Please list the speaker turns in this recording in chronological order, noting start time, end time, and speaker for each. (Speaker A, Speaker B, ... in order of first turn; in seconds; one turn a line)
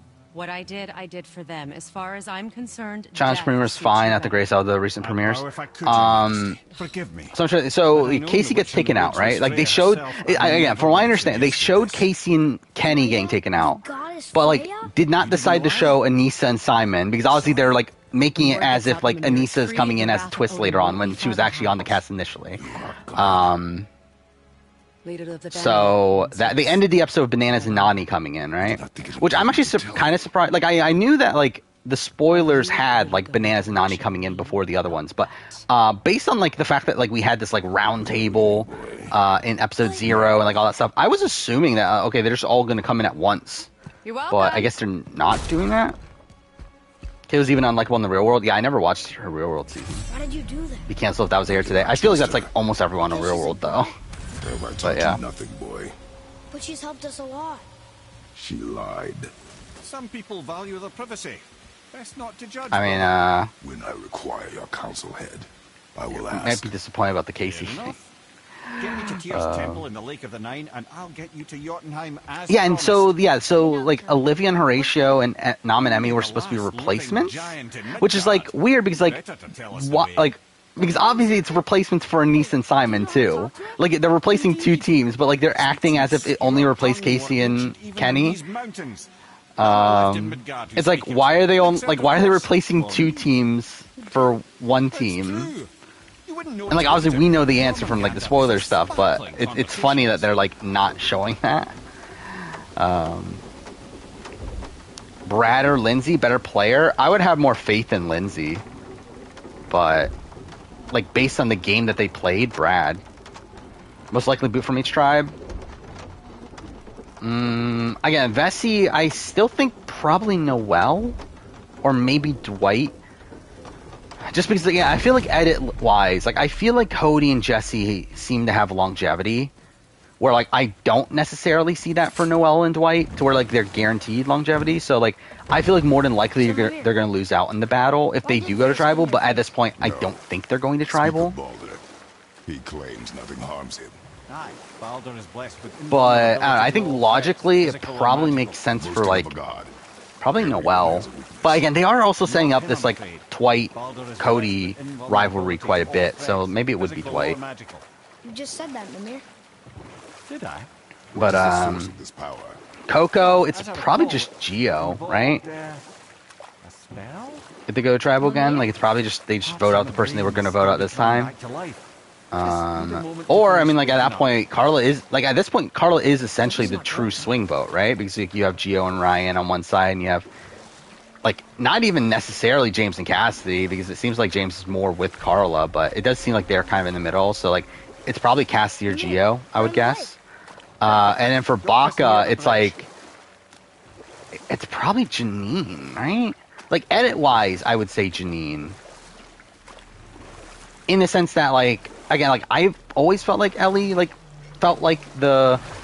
Speaker A: 0.3-4.5
Speaker B: 3.1-6.6
Speaker C: 5.0-7.3
Speaker B: 7.3-23.9
Speaker C: 7.9-12.1
Speaker D: 12.8-14.9
Speaker C: 15.2-16.0
Speaker C: 17.3-17.6
Speaker A: 18.4-22.0
Speaker E: 22.5-23.6
Speaker A: 25.0-28.1
Speaker B: 25.5-43.7
Speaker E: 28.6-30.3
Speaker A: 32.3-35.7
Speaker E: 37.8-39.2
Speaker D: 39.8-40.2
Speaker A: 44.0-44.7
Speaker B: 44.3-46.0
Speaker B: 47.3-50.1
Speaker D: 50.1-50.9
Speaker B: 50.9-53.9
Speaker E: 51.5-52.6
Speaker D: 53.0-53.9
Speaker E: 54.4-56.0
Speaker B: 54.8-55.2
Speaker D: 56.5-57.7
Speaker E: 58.3-59.3
Speaker C: 59.8-63.2
Speaker B: 62.7-63.5
Speaker E: 63.6-66.7
Speaker B: 66.1-68.0
Speaker C: 67.4-68.1
Speaker C: 68.8-73.2
Speaker B: 69.0-69.8
Speaker B: 72.5-79.2
Speaker D: 73.5-75.2
Speaker C: 75.8-80.3
Speaker B: 79.7-88.4
Speaker C: 84.2-93.3
Speaker B: 89.5-95.5
Speaker D: 94.0-94.3
Speaker C: 94.9-95.7
Speaker C: 96.2-100.3
Speaker B: 96.7-101.7
Speaker B: 102.8-103.4
Speaker B: 105.2-108.6
Speaker B: 109.7-110.1
Speaker B: 110.9-113.0
Speaker B: 114.1-115.3
Speaker B: 117.2-121.2
Speaker B: 121.8-122.9
Speaker B: 124.3-129.5
Speaker B: 130.2-141.3
Speaker D: 136.3-137.0
Speaker D: 138.2-139.5
Speaker E: 139.8-140.2
Speaker E: 140.8-141.8
Speaker E: 142.4-144.0
Speaker C: 144.3-148.6
Speaker B: 145.9-149.3
Speaker E: 148.8-149.7
Speaker B: 150.2-157.4
Speaker E: 150.3-151.7
Speaker C: 152.2-157.8
Speaker D: 158.2-159.2
Speaker C: 160.3-160.7
Speaker E: 161.1-162.6
Speaker B: 161.1-161.9
Speaker B: 162.9-165.4
Speaker C: 163.2-165.8
Speaker C: 166.6-167.4
Speaker B: 167.7-171.3
Speaker D: 168.2-168.7
Speaker C: 169.4-171.9
Speaker B: 172.3-180.3
Speaker C: 172.4-174.4
Speaker A: 176.5-177.3
Speaker B: 181.2-190.2
Speaker D: 188.9-190.1
Speaker B: 190.8-192.9
Speaker C: 190.8-192.9
Speaker B: 194.3-198.8
Speaker B: 200.9-205.6